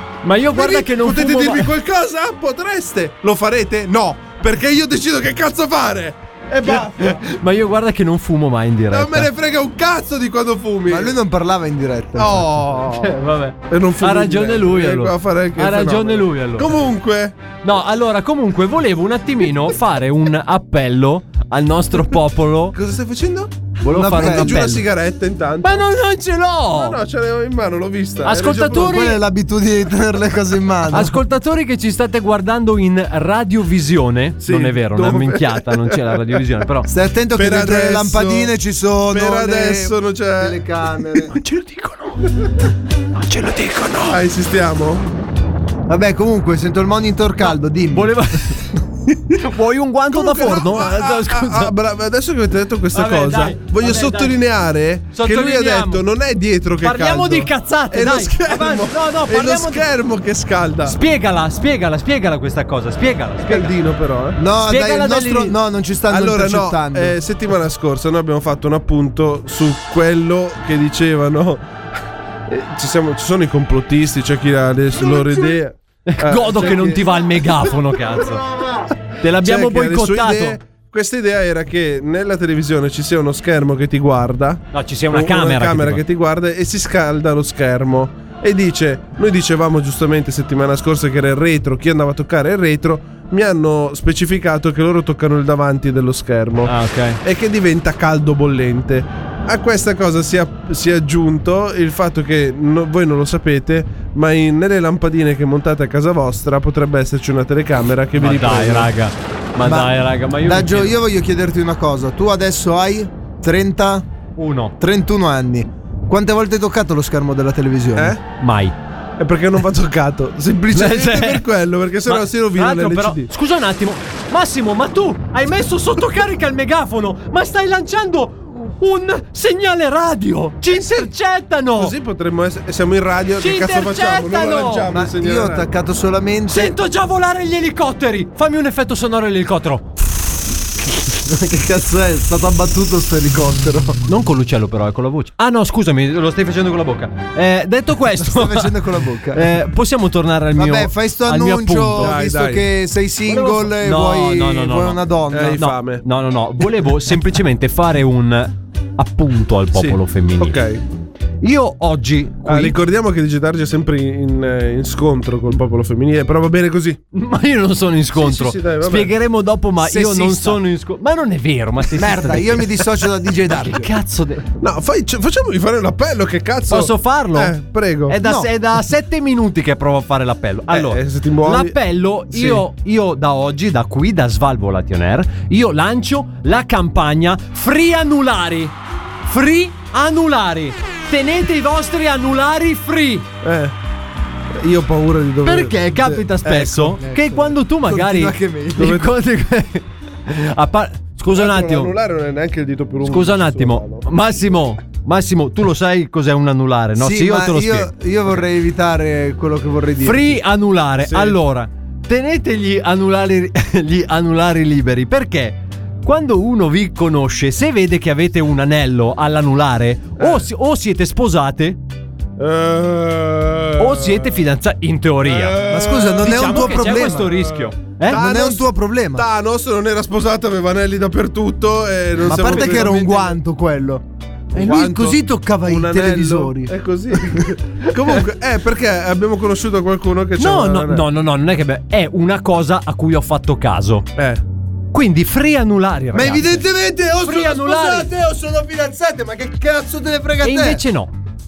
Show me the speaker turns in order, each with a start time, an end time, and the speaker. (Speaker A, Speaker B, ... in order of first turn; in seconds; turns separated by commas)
Speaker A: 0.2-1.7, Speaker B: 0.5-7.2, Speaker A: 6.7-9.3, Speaker B: 8.9-11.1, Speaker C: 10.9-12.8, Speaker B: 12.2-13.1, Speaker A: 13.0-16.7, Speaker B: 13.7-17.4, Speaker A: 17.6-22.8, Speaker B: 22.7-23.5, Speaker A: 23.8-24.8, Speaker C: 23.9-24.6, Speaker B: 24.1-25.8, Speaker A: 25.6-27.0, Speaker B: 26.7-29.1, Speaker A: 28.2-29.2, Speaker C: 28.7-31.2, Speaker A: 30.9-36.9, Speaker B: 34.4-36.4, Speaker C: 36.9-41.3, Speaker B: 37.4-38.5, Speaker B: 39.1-40.6, Speaker A: 41.3-42.3, Speaker A: 43.2-44.2, Speaker B: 44.1-45.1, Speaker C: 45.9-48.1, Speaker A: 47.4-48.6, Speaker A: 49.4-51.7, Speaker B: 50.1-61.0, Speaker A: 52.9-54.3, Speaker A: 55.1-56.0, Speaker A: 56.8-59.8, Speaker A: 60.9-63.8, Speaker B: 63.5-64.4, Speaker C: 64.4-67.2, Speaker A: 64.6-65.6, Speaker B: 66.1-71.6, Speaker B: 72.5-77.7, Speaker A: 76.1-78.4, Speaker C: 78.2-78.9, Speaker A: 79.2-80.6, Speaker B: 79.4-108.9, Speaker A: 84.7-86.0, Speaker A: 96.7-97.2, Speaker A: 108.2-111.0, Speaker C: 109.6-114.1, Speaker A: 114.4-114.7, Speaker C: 114.8-118.2, Speaker B: 118.0-118.2, Speaker A: 118.4-118.7, Speaker B: 119.2-123.3, Speaker A: 120.7-121.5, Speaker A: 122.1-131.9, Speaker B: 131.8-135.7, Speaker A: 133.4-134.9, Speaker C: 134.9-136.8, Speaker A: 136.5-139.9, Speaker C: 141.1-144.0, Speaker A: 144.1-148.8, Speaker C: 148.2-149.5, Speaker A: 149.3-152.2, Speaker C: 150.6-155.6, Speaker B: 152.0-152.7, Speaker A: 153.3-155.0, Speaker B: 155.3-156.0, Speaker A: 155.6-160.6, Speaker B: 159.7-160.8, Speaker A: 161.4-162.8, Speaker B: 162.5-167.0, Speaker A: 167.1-172.8, Speaker B: 168.1-169.1, Speaker C: 169.9-170.5, Speaker C: 171.9-173.9, Speaker A: 173.5-174.4, Speaker B: 174.6-178.2, Speaker A: 176.7-177.6, Speaker A: 178.1-188.8, Speaker C: 178.2-178.5, Speaker B: 180.7-181.8, Speaker B: 182.3-182.6, Speaker A: 189.3-193.3, Speaker B: 193.4-193.8, Speaker B: 194.5-197.0, Speaker A: 195.4-201.9, Speaker C: 197.0-199.0, Speaker B: 198.8-199.1, Speaker B: 201.3-204.1, Speaker A: 203.1-207.9, Speaker C: 207.0-210.4, Speaker A: 210.0-221.8, Speaker B: 211.0-211.4, Speaker B: 220.2-220.4, Speaker B: 222.4-224.3, Speaker A: 223.8-225.6, Speaker B: 225.2-233.4, Speaker C: 225.6-227.3, Speaker A: 226.2-228.2, Speaker C: 228.1-229.3, Speaker C: 232.2-236.7, Speaker A: 232.5-232.9, Speaker B: 234.5-241.1, Speaker A: 240.4-244.1, Speaker B: 244.2-244.4, Speaker A: 244.9-246.6, Speaker C: 246.1-250.8, Speaker A: 247.2-248.1, Speaker A: 250.4-251.1